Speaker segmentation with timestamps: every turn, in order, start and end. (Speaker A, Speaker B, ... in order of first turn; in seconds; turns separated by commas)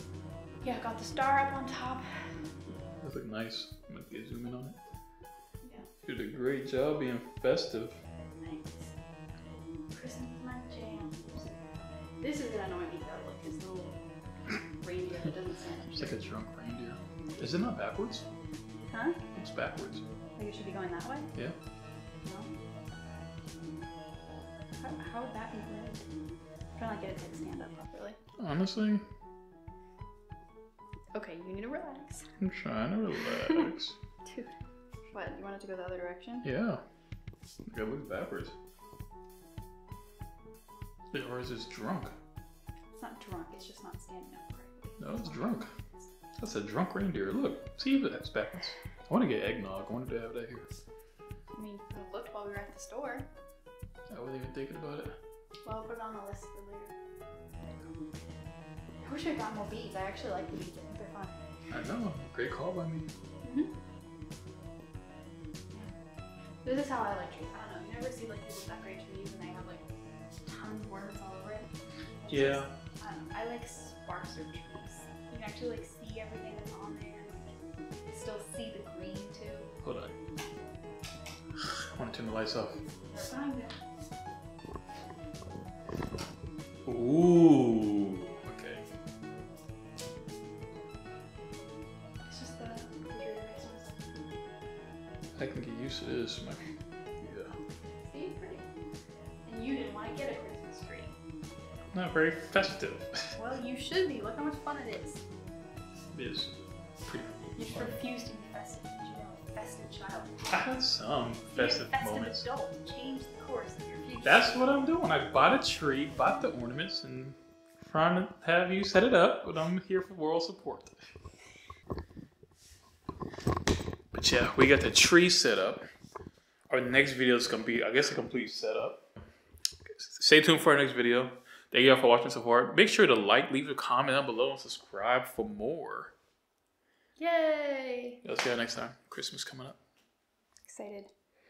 Speaker A: 0.6-2.4, Speaker B: 3.0-4.8, Speaker A: 5.6-5.9, Speaker B: 6.0-8.0, Speaker A: 8.4-8.9, Speaker A: 9.9-16.2, Speaker B: 16.0-18.3, Speaker A: 18.9-19.2, Speaker B: 19.4-20.0, Speaker A: 20.4-21.3, Speaker A: 22.2-22.5, Speaker A: 24.7-26.1, Speaker A: 26.8-28.2, Speaker B: 28.4-29.0, Speaker A: 31.1-32.3, Speaker B: 32.4-34.0, Speaker A: 34.2-34.5, Speaker A: 35.1-36.5, Speaker B: 36.4-36.8, Speaker B: 37.7-38.5, Speaker B: 41.1-42.1, Speaker A: 42.9-46.1, Speaker B: 45.0-45.7, Speaker B: 46.4-50.7, Speaker A: 51.5-53.3, Speaker B: 54.1-55.2, Speaker A: 55.6-57.0, Speaker A: 59.0-61.4, Speaker B: 61.7-63.1, Speaker A: 63.4-63.8, Speaker A: 66.6-69.8, Speaker A: 70.5-71.7, Speaker A: 72.2-77.6, Speaker B: 72.3-72.7, Speaker A: 78.1-79.7, Speaker B: 79.8-80.2, Speaker B: 81.6-82.8, Speaker A: 83.0-83.8, Speaker B: 86.9-88.9, Speaker A: 92.3-94.0, Speaker B: 95.4-97.6, Speaker A: 98.0-98.7, Speaker A: 99.5-101.2, Speaker B: 101.9-103.3, Speaker A: 103.4-105.2, Speaker B: 106.1-108.0, Speaker A: 107.6-110.4, Speaker B: 110.5-112.5, Speaker A: 111.5-114.5, Speaker B: 114.2-121.0, Speaker B: 124.1-125.8, Speaker B: 126.7-129.1, Speaker B: 129.9-136.1, Speaker A: 137.2-138.2, Speaker B: 138.2-139.8, Speaker A: 140.7-141.1